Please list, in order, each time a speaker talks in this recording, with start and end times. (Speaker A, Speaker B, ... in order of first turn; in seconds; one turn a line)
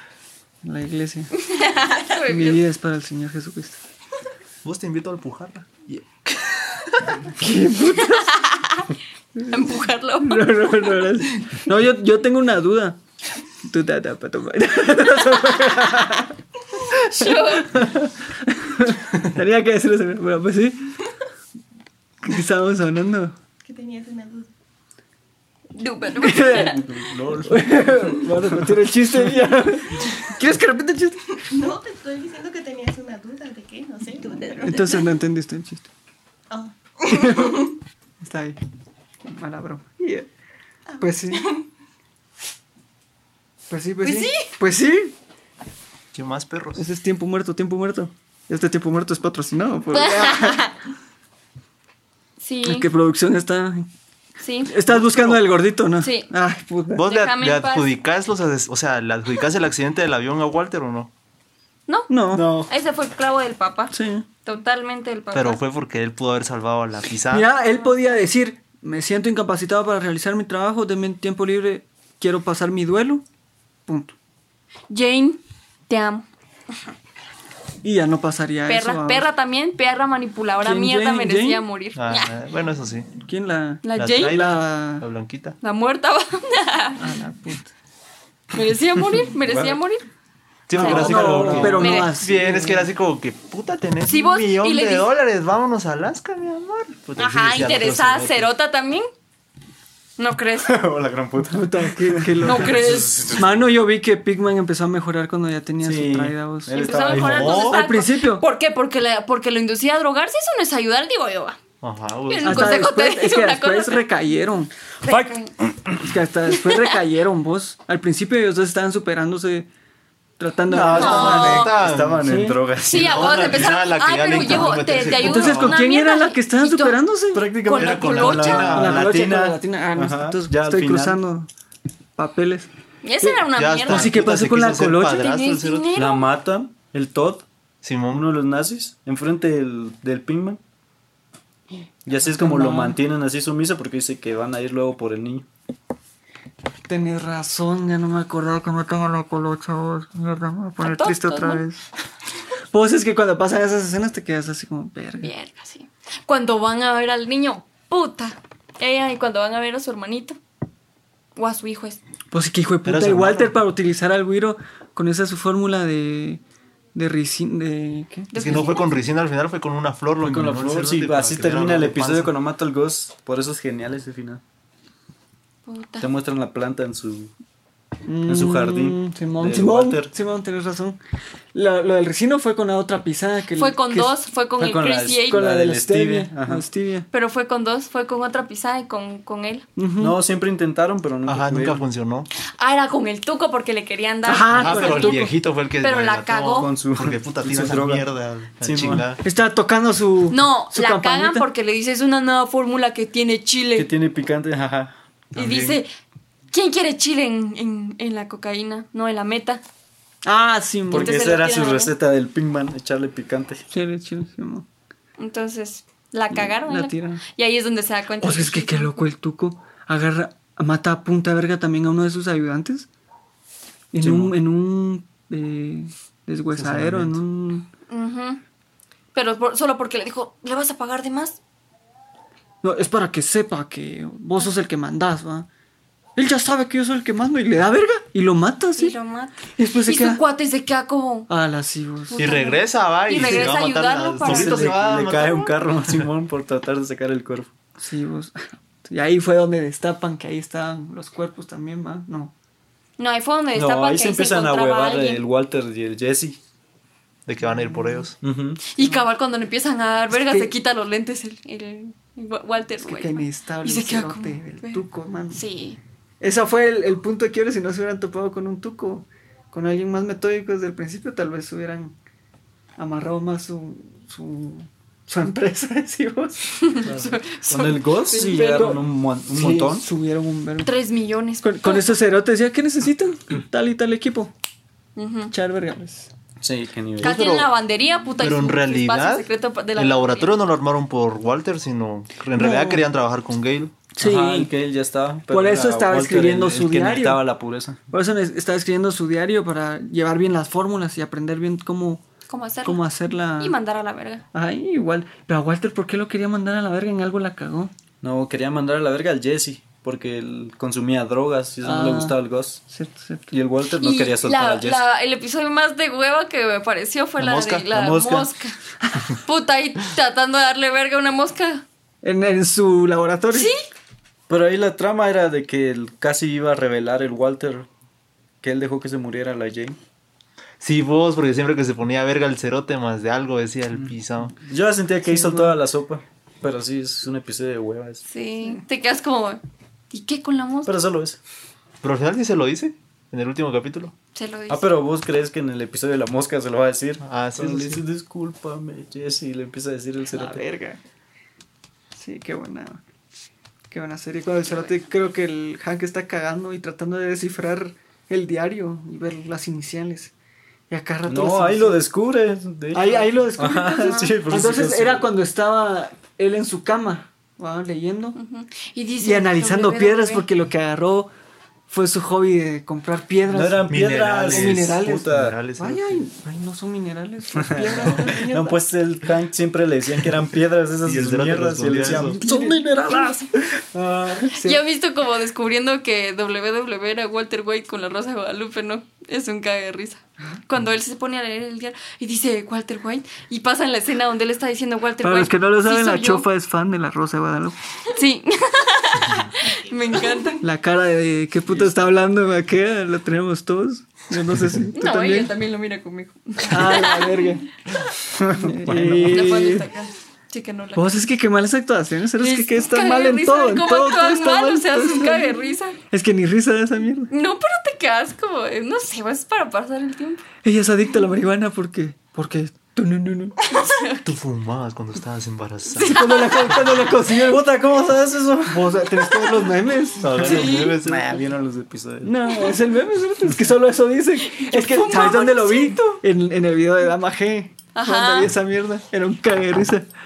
Speaker A: 0.6-1.4
Speaker B: 1.4-2.6
Speaker A: 2.3-3.8
Speaker C: 4.6-7.2
Speaker A: 7.4-8.3
Speaker B: 8.1-8.9
Speaker B: 9.4-11.0
Speaker A: 10.2-13.0
Speaker A: 13.7-16.4
Speaker B: 16.9-17.8
Speaker A: 17.1-21.0
Speaker A: 22.2-23.4
Speaker D: 23.6-24.5
Speaker B: 25.8-26.8
Speaker A: 26.2-26.8
Speaker E: 26.5-28.8
Speaker A: 27.4-31.4
Speaker D: 31.5-35.1
Speaker A: 34.6-35.9
Speaker D: 36.5-37.7
Speaker A: 37.1-38.6
Speaker A: 39.2-40.3
Speaker D: 40.9-41.7
Speaker A: 41.0-41.5
Speaker A: 43.7-45.2
Speaker C: 46.1-46.8
Speaker A: 46.8-50.6
Speaker B: 49.9-50.7
Speaker B: 52.4-52.9
Speaker A: 52.6-53.9
Speaker B: 54.4-54.8
Speaker A: 54.6-57.0
Speaker C: 54.9-55.4
Speaker B: 56.0-56.3
Speaker C: 57.0-61.1
Speaker B: 57.0-57.9
Speaker B: 61.9-65.6
Speaker A: 62.1-62.5
Speaker E: 62.3-62.7
Speaker A: 63.9-64.3
Speaker C: 65.3-67.5
Speaker A: 67.3-73.2
Speaker A: 73.9-74.1
Speaker B: 74.9-76.3
Speaker A: 77.8-79.3
Speaker B: 78.7-82.3
Speaker A: 80.6-81.6
Speaker C: 82.0-83.1
Speaker A: 83.2-85.1
Speaker B: 83.8-84.5
Speaker C: 84.0-85.6
Speaker B: 85.6-87.1
Speaker A: 87.0-87.7
Speaker B: 88.5-90.0
Speaker E: 89.4-89.8
Speaker C: 90.7-98.5
Speaker B: 90.7-92.2
Speaker A: 90.7-92.9
Speaker E: 90.8-91.9
Speaker B: 94.0-95.1
Speaker B: 97.2-99.1
Speaker B: 100.2-100.8
Speaker E: 100.6-103.7
Speaker A: 101.4-108.5
Speaker B: 102.4-103.2
Speaker E: 105.8-107.7
Speaker B: 106.7-111.6
Speaker C: 107.0-107.8
Speaker C: 111.8-112.8
Speaker B: 112.3-114.1
Speaker A: 112.4-114.7
Speaker B: 115.0-115.5
Speaker E: 115.0-116.1
Speaker A: 116.0-119.7
Speaker B: 116.5-117.0
Speaker A: 120.4-121.7
Speaker E: 120.7-123.7
Speaker C: 120.8-122.2
Speaker B: 120.9-121.7
Speaker A: 122.2-122.6
Speaker B: 122.9-128.8
Speaker C: 122.9-125.8
Speaker A: 125.1-127.5
Speaker E: 127.3-131.2
Speaker C: 127.7-129.4
Speaker A: 128.7-131.5
Speaker A: 132.2-132.7
Speaker B: 133.0-134.2
Speaker A: 133.2-135.3
Speaker C: 133.6-136.1
Speaker B: 135.1-136.2
Speaker E: 135.9-137.5
Speaker C: 137.8-138.3
Speaker E: 138.1-140.6
Speaker E: 142.1-145.5
Speaker A: 142.2-143.0
Speaker A: 146.9-151.8
Speaker B: 150.8-151.7
Speaker A: 152.7-155.3
Speaker B: 155.2-160.4
Speaker B: 161.4-162.0
Speaker A: 162.3-166.4
Speaker C: 162.8-163.6
Speaker A: 166.9-168.7
Speaker B: 168.3-168.9
Speaker C: 168.3-172.3
Speaker E: 170.2-174.4
Speaker B: 175.7-176.1
Speaker E: 176.0-177.3
Speaker A: 178.1-181.0
Speaker E: 178.3-180.1
Speaker A: 181.5-184.2
Speaker B: 183.6-185.4
Speaker E: 184.6-186.7
Speaker A: 185.3-187.1
Speaker B: 187.1-189.7
Speaker A: 189.8-190.2
Speaker E: 190.0-191.8
Speaker C: 191.3-192.3
Speaker B: 192.5-196.7
Speaker A: 194.2-195.3
Speaker C: 194.5-199.2
Speaker E: 196.6-198.1
Speaker E: 198.6-199.1
Speaker A: 199.2-201.5
Speaker B: 200.3-203.9
Speaker E: 203.8-204.9
Speaker B: 205.3-205.9
Speaker C: 205.3-205.8
Speaker B: 206.5-209.6
Speaker A: 210.3-211.2
Speaker E: 210.9-213.6
Speaker B: 210.9-211.9
Speaker A: 213.7-214.7
Speaker B: 215.2-219.1
Speaker A: 216.3-217.2
Speaker A: 218.2-222.9
Speaker A: 223.9-227.7
Speaker E: 224.0-224.4
Speaker C: 226.6-227.2
Speaker B: 227.9-228.4
Speaker B: 229.1-231.4
Speaker A: 232.6-235.5
Speaker A: 236.2-239.0
Speaker B: 238.8-241.3
Speaker A: 239.6-240.2
Speaker A: 241.3-242.3
Speaker B: 242.1-245.3
Speaker C: 242.2-246.0
Speaker A: 243.2-243.6
Speaker E: 244.2-247.5
Speaker A: 247.8-252.3
Speaker B: 253.0-255.2
Speaker E: 253.5-256.4
Speaker C: 257.3-258.2
Speaker A: 257.4-258.1
Speaker E: 258.2-258.6
Speaker B: 258.7-265.8
Speaker A: 258.8-259.0
Speaker A: 260.1-260.5
Speaker A: 262.8-265.4
Speaker A: 266.2-271.9
Speaker A: 272.8-276.9
Speaker B: 276.6-278.6
Speaker E: 276.9-279.9
Speaker A: 278.2-280.7
Speaker B: 280.6-281.9
Speaker A: 281.4-284.3
Speaker B: 285.0-285.3
Speaker A: 285.3-286.1
Speaker E: 286.4-287.2
Speaker C: 287.0-287.5
Speaker B: 287.0-290.4
Speaker C: 288.2-293.8
Speaker A: 292.4-292.8
Speaker A: 294.0-294.5
Speaker E: 294.0-297.8
Speaker A: 295.3-297.2
Speaker A: 297.9-302.0
Speaker B: 302.3-302.8
Speaker A: 302.6-303.6
Speaker B: 303.4-304.2
Speaker A: 304.3-307.7
Speaker E: 308.0-312.6
Speaker A: 311.6-313.3
Speaker E: 313.3-314.8
Speaker B: 313.8-318.6
Speaker C: 317.2-317.7
Speaker E: 317.7-318.3
Speaker B: 319.2-321.6
Speaker A: 322.0-323.5
Speaker B: 323.3-323.6
Speaker E: 324.3-327.7
Speaker E: 328.4-329.8
Speaker C: 330.6-334.4
Speaker E: 333.8-338.0
Speaker A: 335.0-335.6
Speaker B: 338.1-340.7
Speaker E: 340.7-341.2
Speaker C: 341.8-343.9
Speaker B: 344.1-344.7
Speaker E: 344.5-350.4
Speaker C: 347.0-347.8
Speaker A: 350.1-350.8
Speaker A: 352.0-352.8
Speaker A: 353.7-360.1
Speaker A: 360.7-361.8
Speaker E: 361.1-365.1
Speaker A: 362.7-368.2
Speaker B: 363.7-364.1
Speaker B: 368.2-370.3
Speaker A: 369.0-371.1
Speaker A: 371.7-373.7
Speaker E: 373.3-375.4
Speaker C: 373.7-376.0
Speaker A: 374.2-378.5
Speaker E: 377.4-384.4
Speaker D: 378.0-378.5
Speaker C: 380.8-382.2
Speaker A: 381.9-382.7
Speaker A: 384.3-384.6
Speaker B: 384.4-396.3
Speaker A: 395.0-397.6
Speaker B: 397.9-400.4
Speaker D: 399.4-400.4
Speaker A: 400.4-405.3
Speaker B: 404.8-407.4
Speaker A: 406.5-407.5
Speaker E: 408.1-409.2
Speaker A: 408.3-409.7
Speaker B: 408.9-410.9
Speaker A: 410.8-417.1
Speaker B: 412.2-415.8
Speaker B: 417.1-420.2
Speaker A: 420.4-423.5
Speaker B: 423.5-424.0
Speaker C: 424.0-426.3
Speaker B: 425.8-426.8
Speaker A: 425.8-427.5
Speaker E: 427.0-429.5
Speaker A: 428.5-430.7
Speaker C: 430.0-431.2
Speaker B: 430.2-430.8
Speaker E: 430.3-432.3
Speaker A: 432.0-439.9
Speaker B: 434.3-436.0
Speaker B: 437.8-438.3